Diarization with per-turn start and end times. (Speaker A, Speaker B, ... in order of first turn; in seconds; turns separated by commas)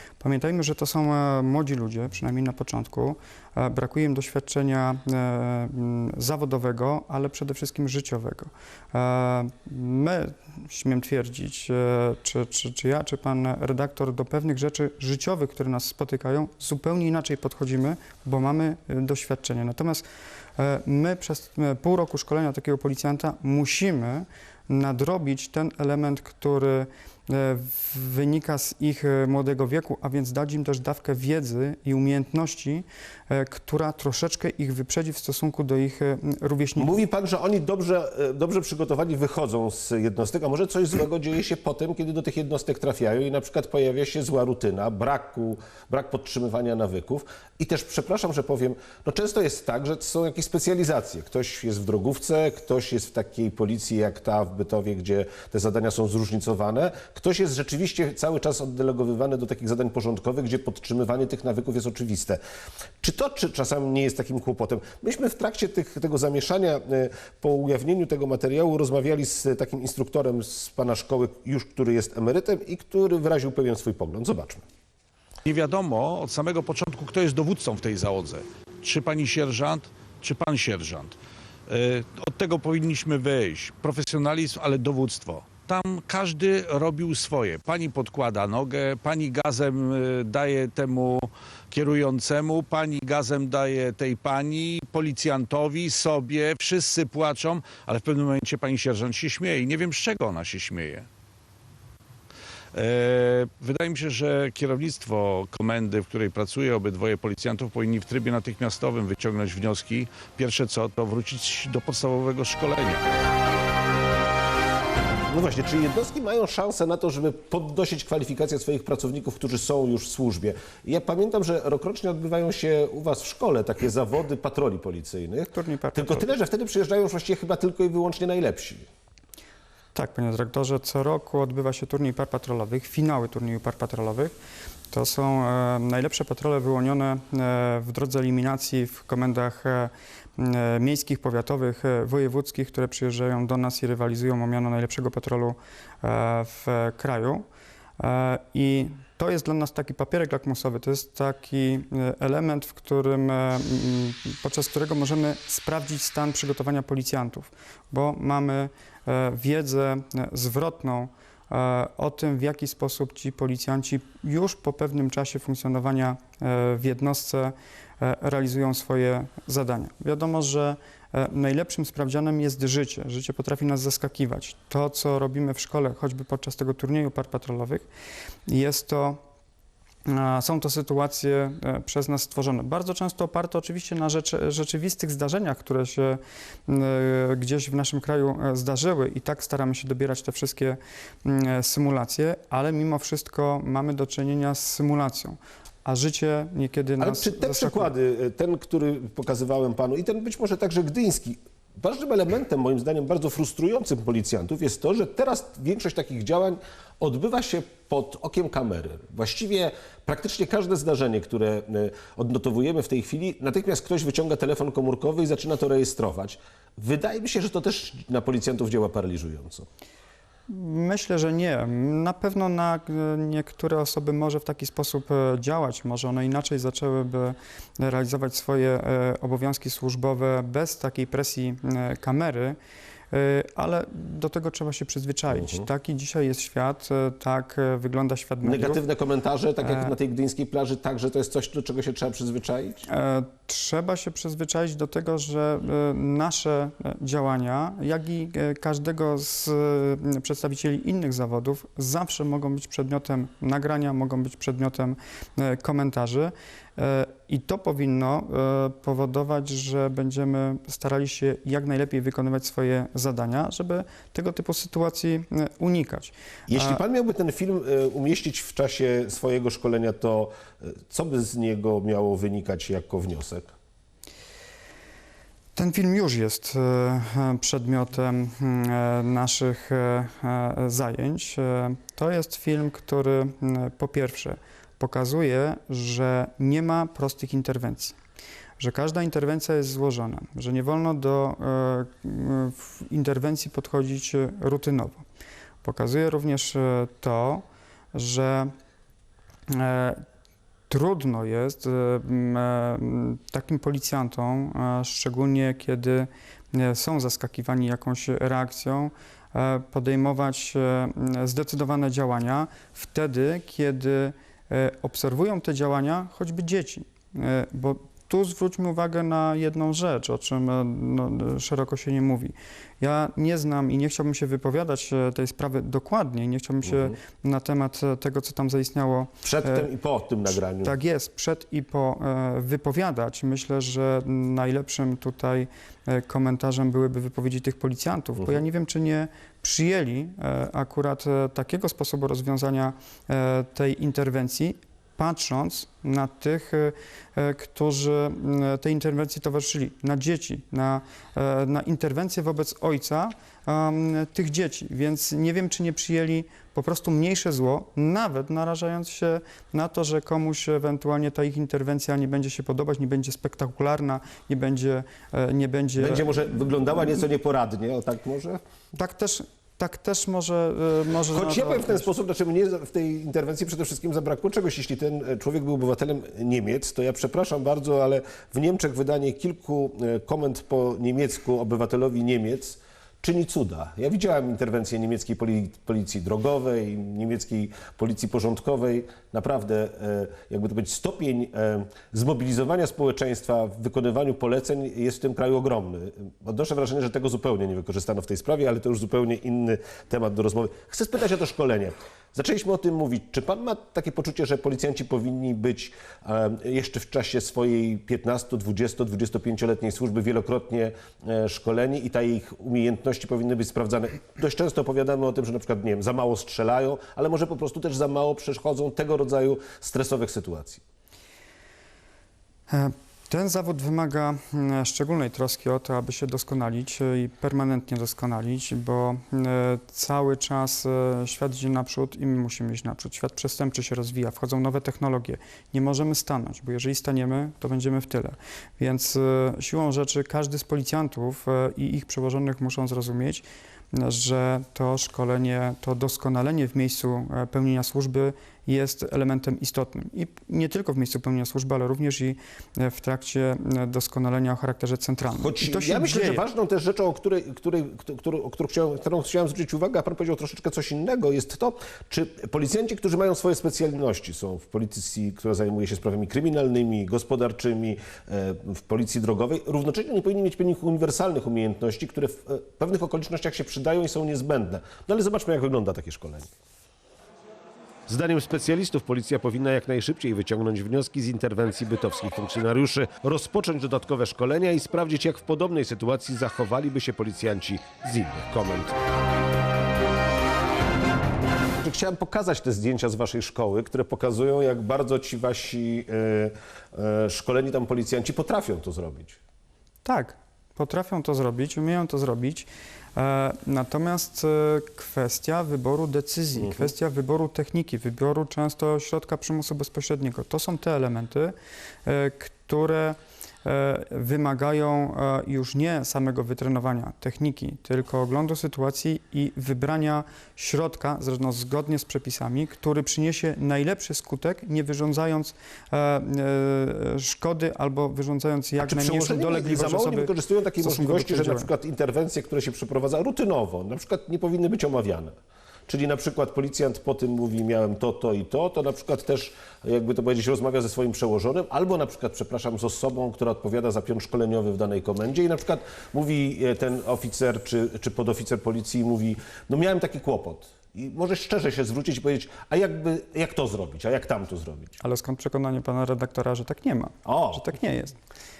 Speaker A: 0.2-37.0, Speaker B: 36.8-62.4, Speaker B: 63.0-74.6, Speaker C: 75.4-81.2, Speaker C: 81.7-101.1, Speaker C: 102.7-113.0, Speaker B: 115.3-128.8, Speaker A: 125.5-126.3, Speaker A: 129.9-134.3, Speaker A: 134.9-147.4, Speaker A: 148.0-177.9, Speaker A: 178.5-179.2, Speaker A: 180.1-197.9, Speaker B: 197.0-219.7, Speaker A: 220.5-232.6, Speaker A: 233.1-238.8, Speaker B: 235.3-235.6, Speaker B: 238.4-242.8, Speaker A: 239.6-239.9, Speaker A: 242.9-266.8, Speaker B: 266.5-273.5, Speaker A: 275.5-287.9, Speaker A: 288.6-295.0, Speaker A: 295.6-298.5, Speaker A: 299.5-300.0, Speaker A: 300.7-329.7, Speaker B: 326.6-326.9, Speaker B: 329.2-330.7, Speaker A: 330.3-366.1, Speaker B: 365.8-368.4, Speaker A: 368.7-371.9, Speaker B: 371.1-420.6, Speaker A: 422.5-456.2, Speaker B: 455.2-476.3, Speaker B: 477.9-488.7, Speaker B: 491.6-499.2, Speaker A: 499.8-531.5, Speaker B: 506.4-506.7, Speaker B: 528.6-535.1, Speaker B: 535.7-554.8, Speaker A: 554.8-558.0, Speaker B: 557.0-557.5